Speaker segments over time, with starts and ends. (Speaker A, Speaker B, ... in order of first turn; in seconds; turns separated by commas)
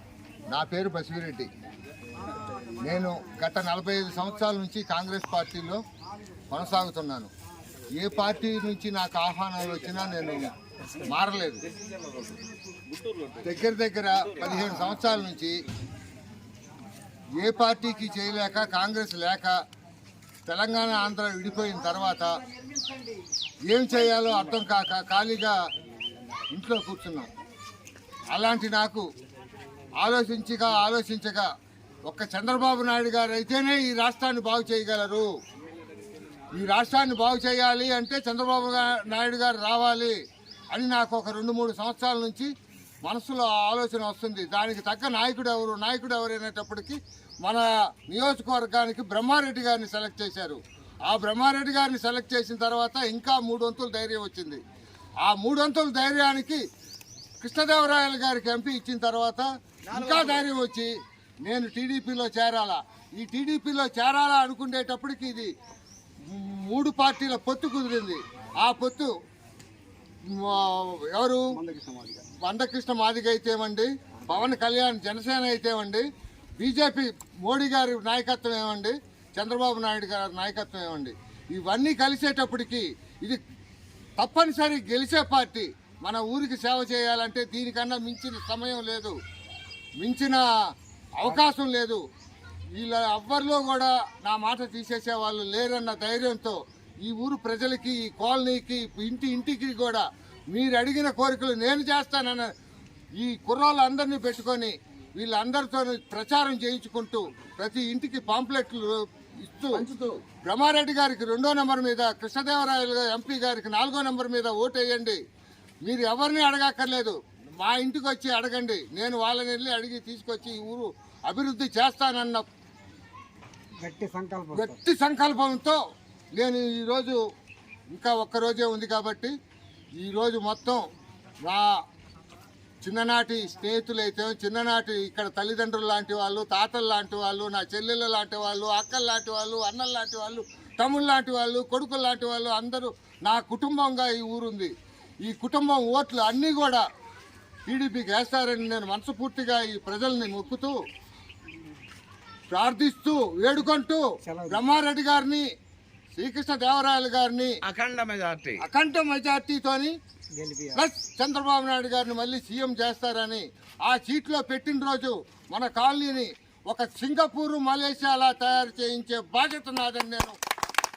Speaker A: 0.5-1.5, Speaker A: 2.8-5.8, Speaker A: 6.5-7.3, Speaker A: 8.0-10.5, Speaker A: 11.0-11.6, Speaker B: 12.9-13.4, Speaker A: 13.4-15.6, Speaker A: 17.4-19.5, Speaker A: 20.5-22.3, Speaker A: 23.7-25.6, Speaker A: 26.5-27.3, Speaker A: 28.3-29.0, Speaker A: 30.0-31.5, Speaker A: 32.1-35.3, Speaker A: 36.6-40.1, Speaker A: 40.7-42.5, Speaker A: 43.0-54.6, Speaker A: 55.2-56.6, Speaker A: 57.4-60.9, Speaker B: 59.9-60.5, Speaker A: 61.4-65.5, Speaker A: 66.3-69.1, Speaker A: 70.3-71.5, Speaker C: 71.5-72.2, Speaker A: 72.4-76.0, Speaker A: 76.6-83.4, Speaker A: 84.2-89.2, Speaker A: 90.0-90.4, Speaker A: 91.2-92.0, Speaker A: 92.8-102.5, Speaker A: 103.2-109.9, Speaker B: 109.7-110.2, Speaker A: 110.5-115.2, Speaker A: 115.8-122.4, Speaker C: 123.8-124.8, Speaker A: 124.5-125.8, Speaker A: 126.3-127.2, Speaker A: 127.9-129.3, Speaker A: 130.0-130.8, Speaker A: 132.8-144.7, Speaker A: 145.2-146.8, Speaker A: 147.7-150.7, Speaker A: 152.5-155.5, Speaker C: 154.2-154.6, Speaker A: 156.2-157.6, Speaker B: 157.6-158.6, Speaker A: 158.6-159.9, Speaker C: 160.4-160.8, Speaker A: 160.7-170.4